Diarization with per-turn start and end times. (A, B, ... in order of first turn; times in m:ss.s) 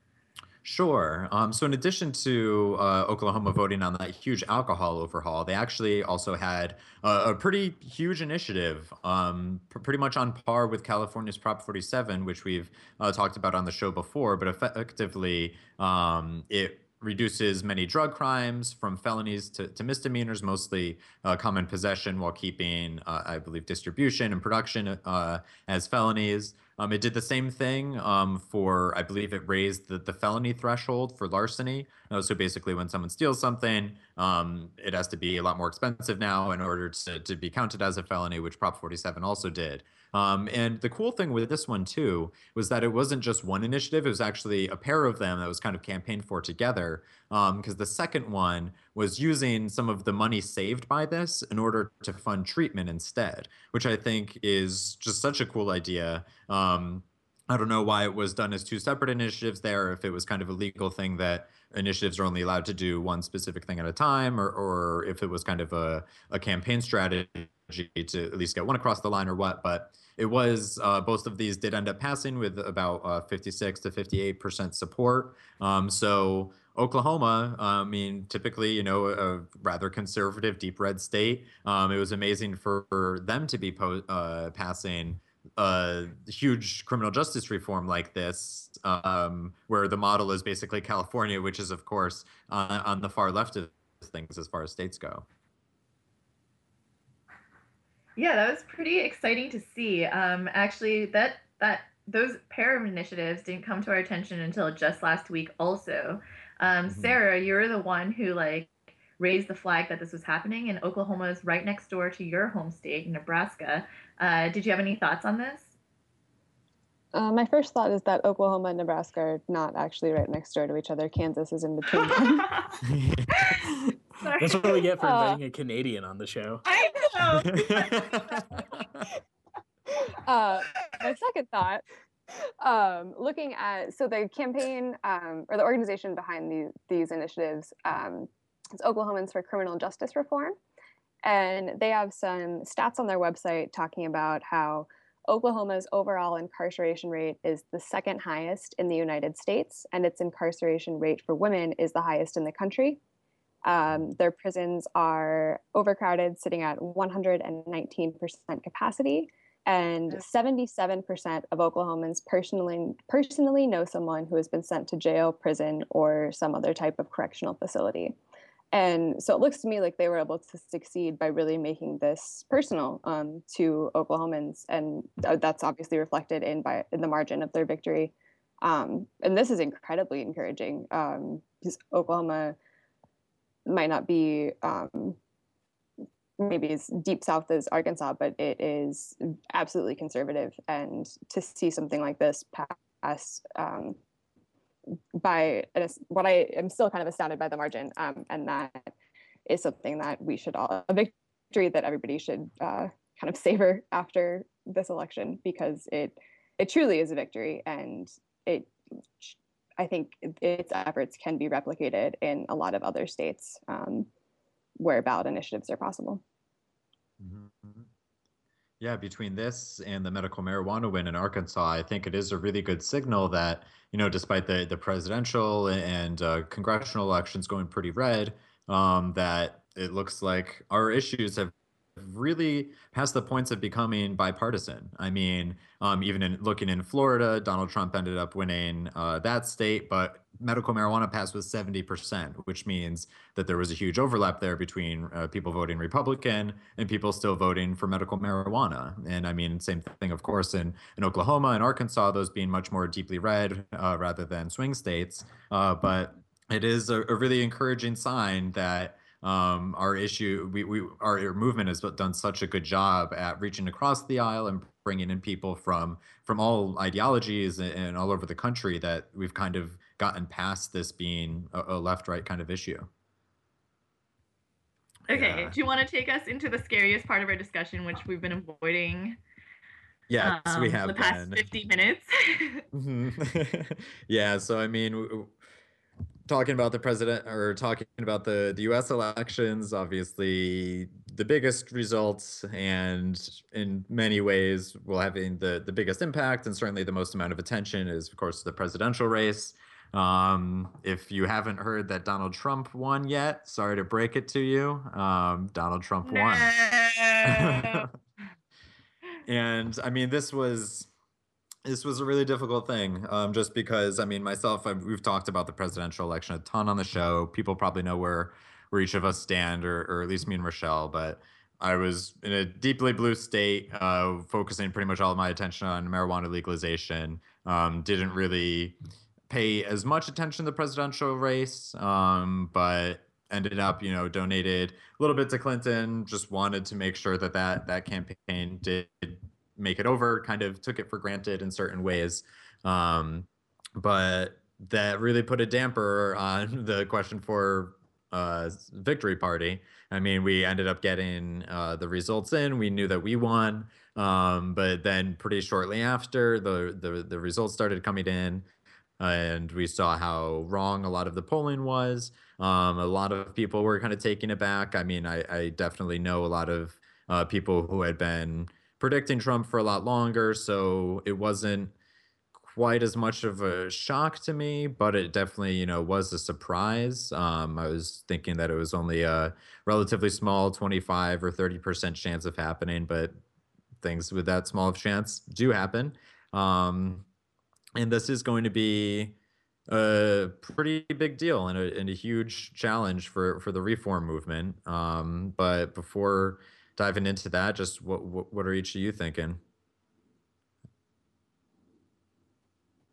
0:00.6-1:35.3 A
1:38.2-1:55.7 B
1:46.9-1:47.2 A
1:57.1-2:02.7 C
2:02.0-2:02.7 B
2:02.8-2:03.4 A
2:03.5-2:06.6 D
2:04.2-2:04.8 B
2:05.0-2:05.4 C
2:06.6-2:08.3 B
2:07.4-2:08.3 A
2:10.2-2:11.8 C
2:12.6-2:20.6 C
2:21.2-2:33.0 C
2:33.6-2:48.2 C
2:48.7-3:02.6 C
3:03.7-3:05.2 C
3:06.4-3:14.0 C
3:15.2-3:18.9 C
3:19.5-3:34.1 C
3:34.8-3:36.2 C
3:37.2-3:37.9 A
3:38.8-4:32.9 A
4:35.1-4:39.2 B
4:35.1-4:35.6 A
4:40.1-4:41.4 A
4:40.2-4:42.7 B
4:42.7-4:45.3 A
4:46.3-5:06.5 A
5:06.0-5:07.9 B
5:07.2-5:07.9 A
5:09.3-5:10.9 A
5:11.6-5:28.8 A
5:29.3-5:58.5 A
5:59.0-6:11.7 A
6:12.4-6:23.2 A
6:23.8-6:27.1 A
6:27.8-6:29.2 A
6:29.7-6:39.4 A